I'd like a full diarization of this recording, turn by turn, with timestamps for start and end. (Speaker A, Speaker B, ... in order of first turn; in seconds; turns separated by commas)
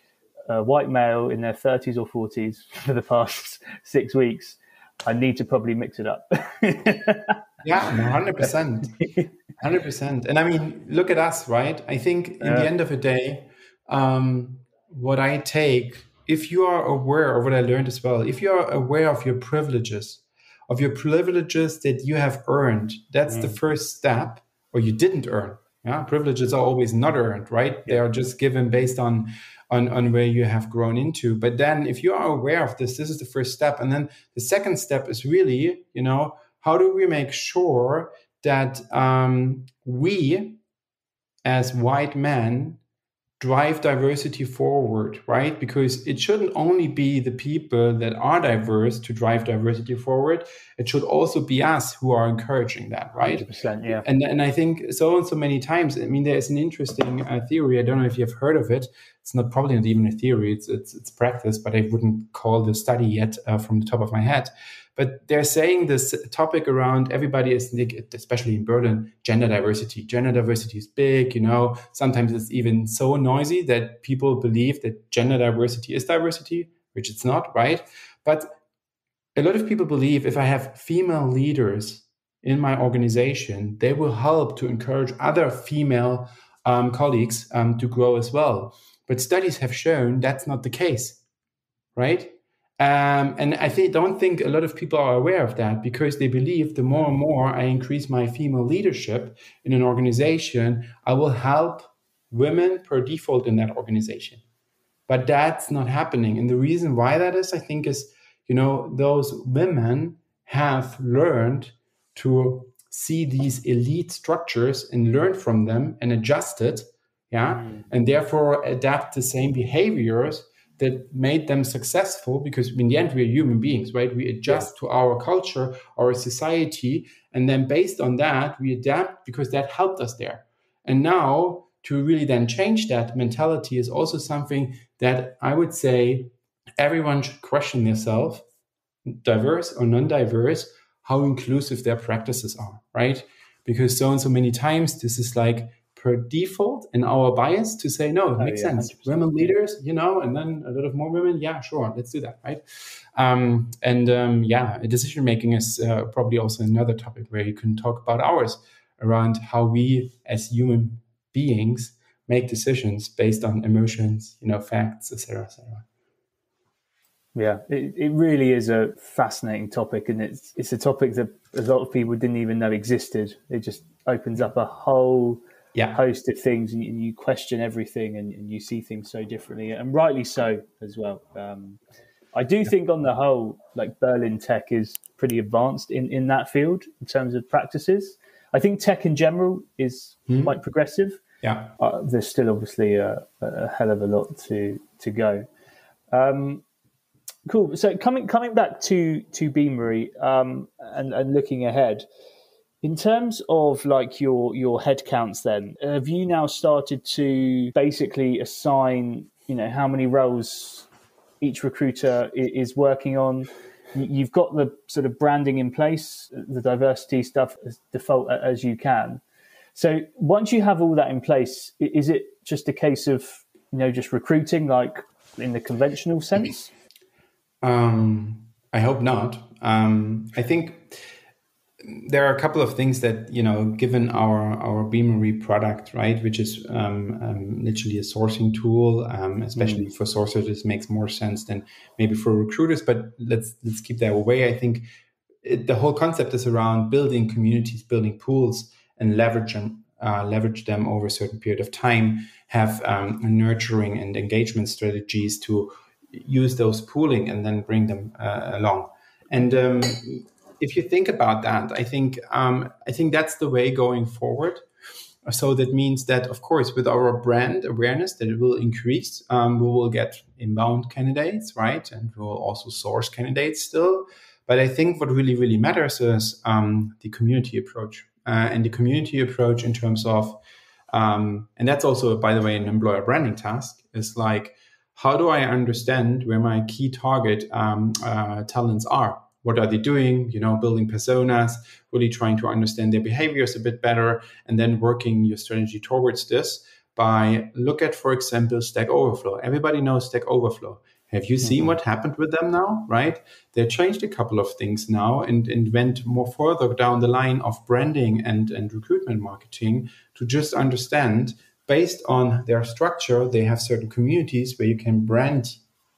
Speaker A: 0.5-7.4, Speaker B: 7.6-40.6, Speaker A: 12.4-12.7, Speaker A: 23.3-23.6, Speaker B: 41.4-42.8, Speaker B: 43.4-53.5, Speaker A: 53.2-54.0, Speaker B: 54.0-78.5, Speaker B: 79.4-91.2, Speaker B: 92.0-104.4, Speaker B: 105.1-138.4, Speaker A: 117.5-117.9, Speaker B: 139.1-152.6, Speaker A: 148.4-149.5, Speaker B: 153.1-165.8, Speaker A: 167.3-181.8, Speaker A: 182.3-191.2, Speaker B: 190.3-190.6, Speaker B: 191.4-191.7, Speaker A: 191.8-195.5, Speaker A: 196.1-196.6, Speaker A: 197.4-202.1, Speaker A: 202.8-210.9, Speaker A: 211.4-219.2, Speaker A: 219.7-226.7, Speaker B: 227.6-231.0, Speaker B: 231.8-244.8, Speaker A: 239.6-239.8, Speaker B: 245.4-264.6, Speaker B: 265.3-280.4, Speaker B: 280.9-315.6, Speaker A: 301.4-301.7